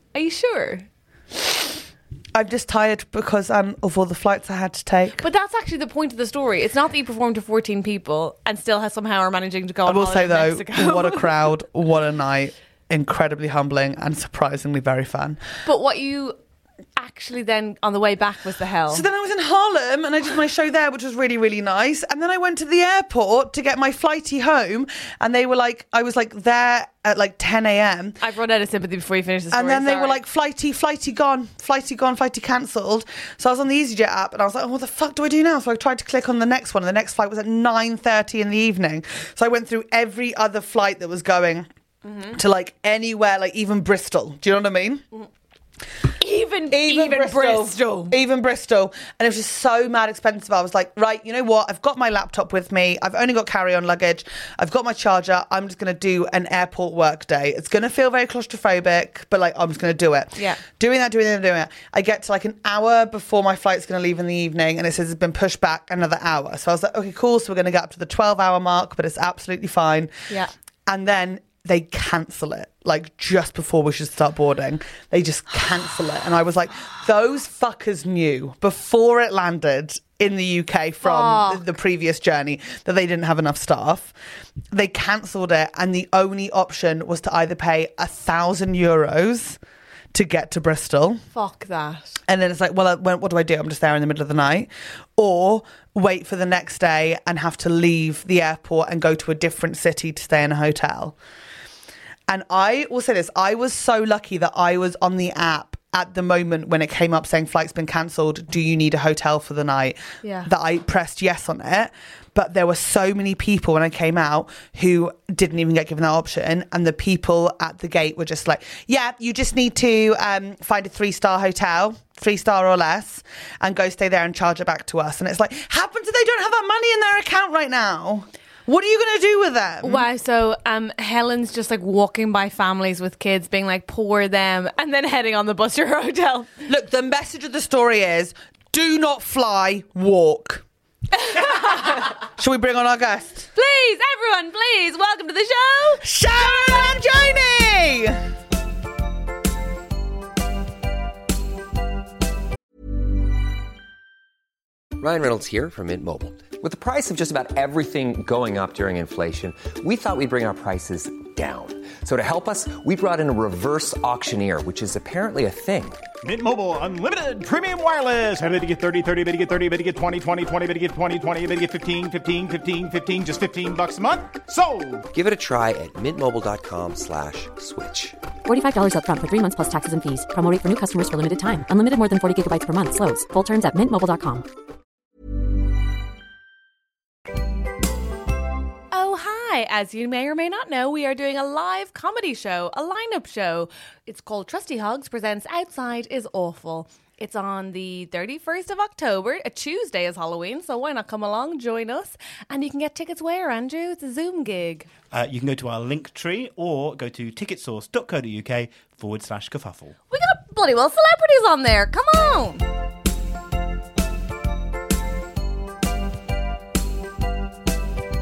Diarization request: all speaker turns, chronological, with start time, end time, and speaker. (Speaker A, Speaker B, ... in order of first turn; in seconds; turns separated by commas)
Speaker A: 0.1-0.8, Speaker B: 2.3-5.2, Speaker A: 5.2-11.5, Speaker B: 9.8-15.4, Speaker A: 15.7-16.4, Speaker A: 17.0-19.1, Speaker B: 18.9-28.2, Speaker A: 28.2-30.2, Speaker B: 29.5-41.7, Speaker A: 42.0-42.4, Speaker B: 42.3-45.0, Speaker A: 46.2-48.2, Speaker B: 46.7-70.1, Speaker B: 70.9-84.1, Speaker A: 81.0-81.6, Speaker B: 84.7-89.6, Speaker B: 90.1-91.2, Speaker A: 91.3-92.2, Speaker B: 92.3-101.2, Speaker B: 102.3-130.1, Speaker A: 110.2-110.5, Speaker A: 129.8-136.5, Speaker B: 136.7-140.6, Speaker A: 141.2-142.1, Speaker B: 141.4-143.5, Speaker A: 143.6-147.1, Speaker B: 146.0-148.2, Speaker C: 155.0-166.0, Speaker D: 166.2-175.1, Speaker C: 175.1-178.2, Speaker E: 178.4-184.5, Speaker A: 188.9-204.9, Speaker F: 205.1-209.9, Speaker A: 210.1-212.7